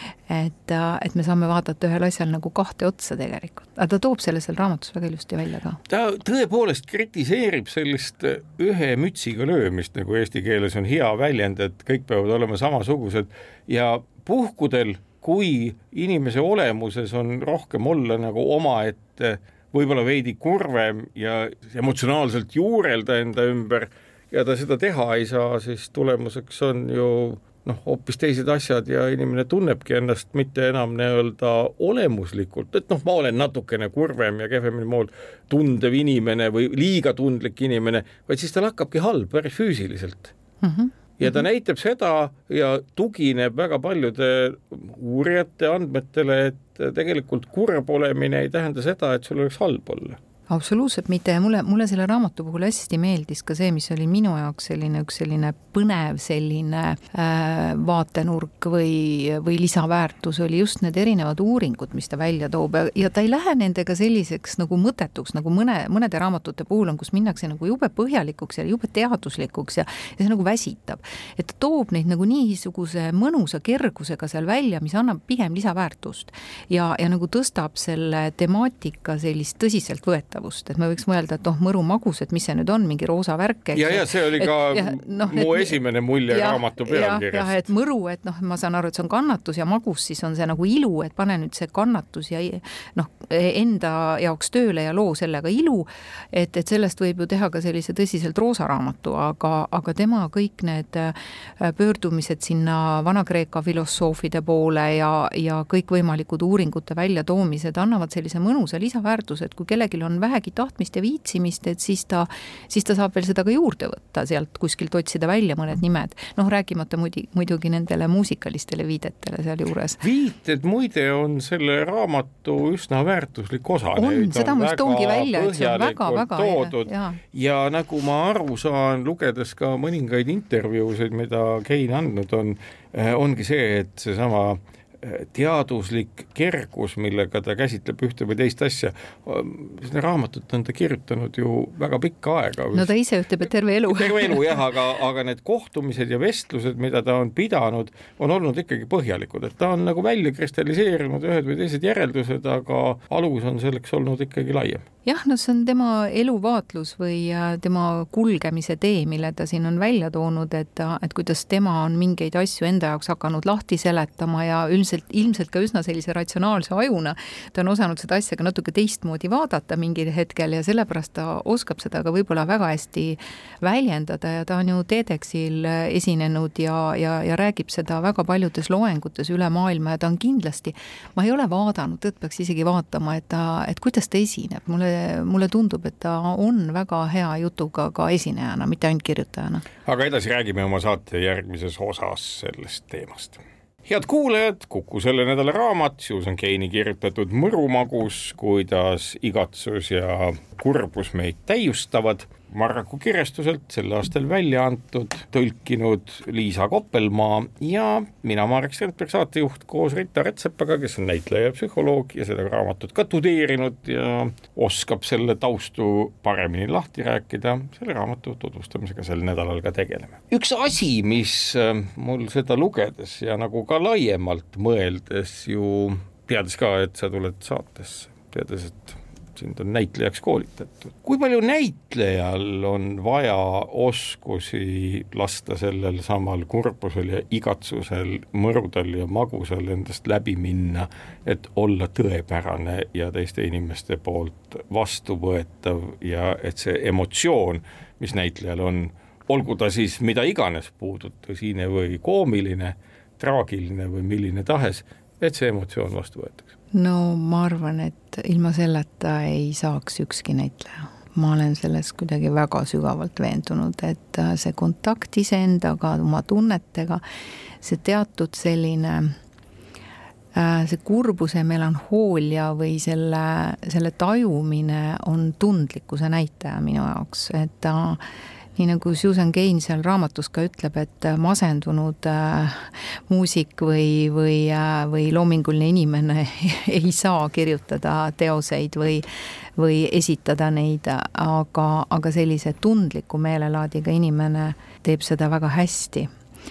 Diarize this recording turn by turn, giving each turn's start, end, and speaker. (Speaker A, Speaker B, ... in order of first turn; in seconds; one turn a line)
Speaker A: 0.3-5.8
Speaker B: 5.9-40.3
Speaker A: 40.6-41.4
Speaker B: 41.2-50.2
Speaker A: 50.5-85.8
Speaker B: 83.7-87.7
Speaker A: 86.3-120.0
Speaker B: 120.0-142.9
Speaker A: 124.0-127.2
Speaker A: 142.7-144.6
Speaker B: 143.9-154.8
Speaker A: 155.1-189.7
Speaker B: 189.8-256.5
Speaker A: 256.7-267.0
Speaker A: 267.6-269.1
Speaker A: 270.3-278.0
Speaker A: 278.6-289.1
Speaker A: 289.6-296.1